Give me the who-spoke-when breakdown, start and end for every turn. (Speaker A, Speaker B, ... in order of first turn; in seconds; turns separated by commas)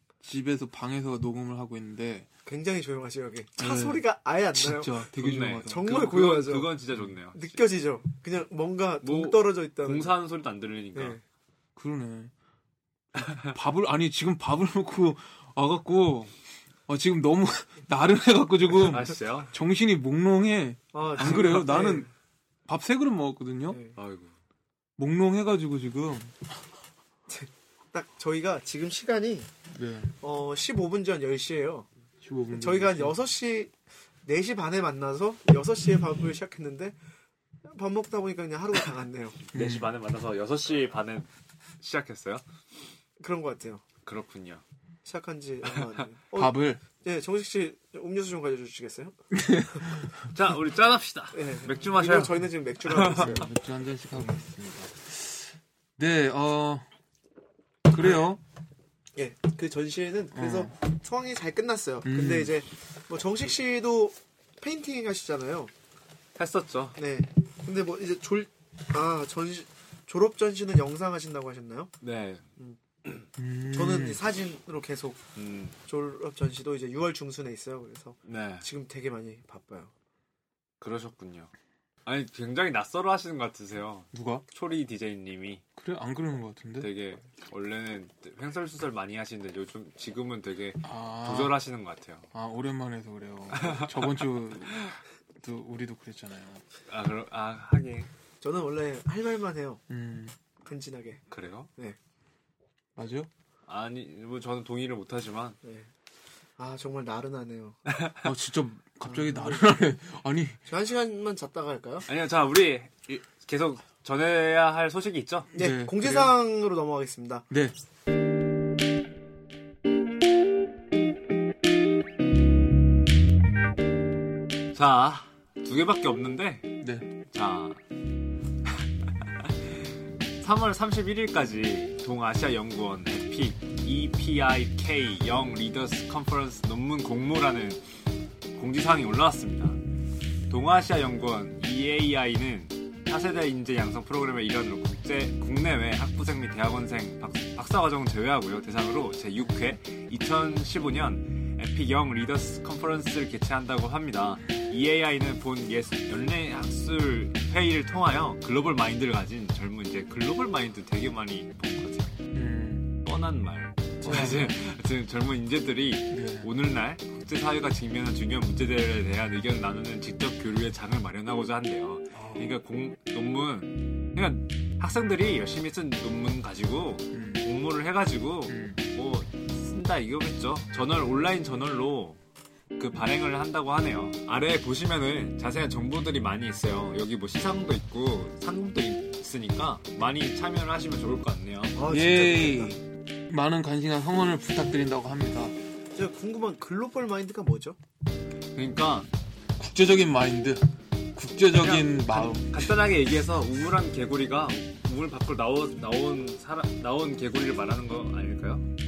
Speaker A: 0.2-2.3, Speaker B: 2.5-6.7, Speaker A: 3.6-4.0, Speaker A: 4.5-5.9, Speaker C: 5.2-7.6, Speaker B: 7.3-10.1, Speaker C: 9.0-11.2, Speaker B: 10.9-11.2, Speaker A: 11.8-12.3, Speaker C: 13.2-13.5, Speaker A: 13.5-16.3, Speaker A: 16.9-22.1, Speaker C: 18.8-19.5, Speaker B: 20.9-22.1, Speaker A: 22.7-23.8, Speaker B: 23.7-24.0, Speaker C: 23.9-24.3, Speaker A: 25.0-26.4, Speaker B: 27.3-29.5, Speaker A: 29.7-30.1, Speaker B: 30.2-31.9, Speaker A: 32.2-33.2, Speaker B: 32.5-33.7, Speaker B: 34.2-36.9, Speaker B: 37.6-39.4, Speaker A: 39.5-39.9, Speaker C: 39.5-41.3, Speaker C: 41.8-42.4, Speaker B: 43.2-43.8, Speaker C: 44.0-44.6, Speaker B: 45.0-49.1, Speaker C: 45.8-46.0, Speaker A: 46.3-46.8, Speaker A: 49.3-50.1, Speaker C: 50.3-53.4, Speaker B: 51.3-53.5, Speaker A: 53.0-56.9, Speaker A: 57.9-58.4, Speaker B: 59.1-65.7, Speaker A: 60.3-60.7, Speaker A: 62.0-62.5, Speaker C: 66.3-67.0, Speaker B: 67.0-71.9, Speaker C: 72.0-72.4, Speaker A: 73.4-74.2, Speaker B: 73.7-75.2, Speaker C: 75.3-75.7, Speaker B: 75.8-79.9, Speaker C: 78.2-78.7, Speaker C: 80.8-81.5, Speaker C: 82.0-85.6, Speaker A: 84.1-84.4, Speaker A: 85.8-86.9, Speaker C: 86.8-92.2, Speaker A: 90.8-91.6, Speaker A: 92.3-96.6, Speaker C: 93.5-94.1, Speaker C: 96.9-98.1, Speaker B: 98.4-99.8, Speaker A: 99.9-100.3, Speaker B: 100.6-101.2, Speaker C: 101.3-101.7, Speaker A: 103.0-103.3, Speaker C: 103.7-105.5, Speaker B: 106.6-107.8, Speaker C: 107.9-108.2, Speaker A: 108.2-110.6, Speaker B: 109.0-109.7, Speaker B: 110.7-112.0, Speaker C: 112.1-115.5, Speaker A: 115.5-116.3, Speaker B: 115.5-117.5, Speaker A: 117.5-117.7, Speaker C: 124.7-126.7, Speaker A: 126.8-127.1, Speaker C: 127.3-127.8, Speaker C: 130.4-137.8, Speaker C: 138.5-139.8, Speaker C: 140.5-162.1, Speaker A: 162.3-162.9, Speaker C: 163.0-182.2, Speaker A: 164.0-164.5, Speaker A: 166.1-166.5, Speaker A: 172.1-172.6, Speaker A: 177.1-177.4, Speaker A: 178.5-178.8, Speaker C: 182.8-191.8, Speaker B: 191.8-192.8, Speaker A: 191.9-195.5, Speaker B: 195.9-197.8, Speaker C: 198.5-199.1, Speaker A: 199.6-200.6, Speaker A: 201.2-202.6, Speaker C: 201.5-208.6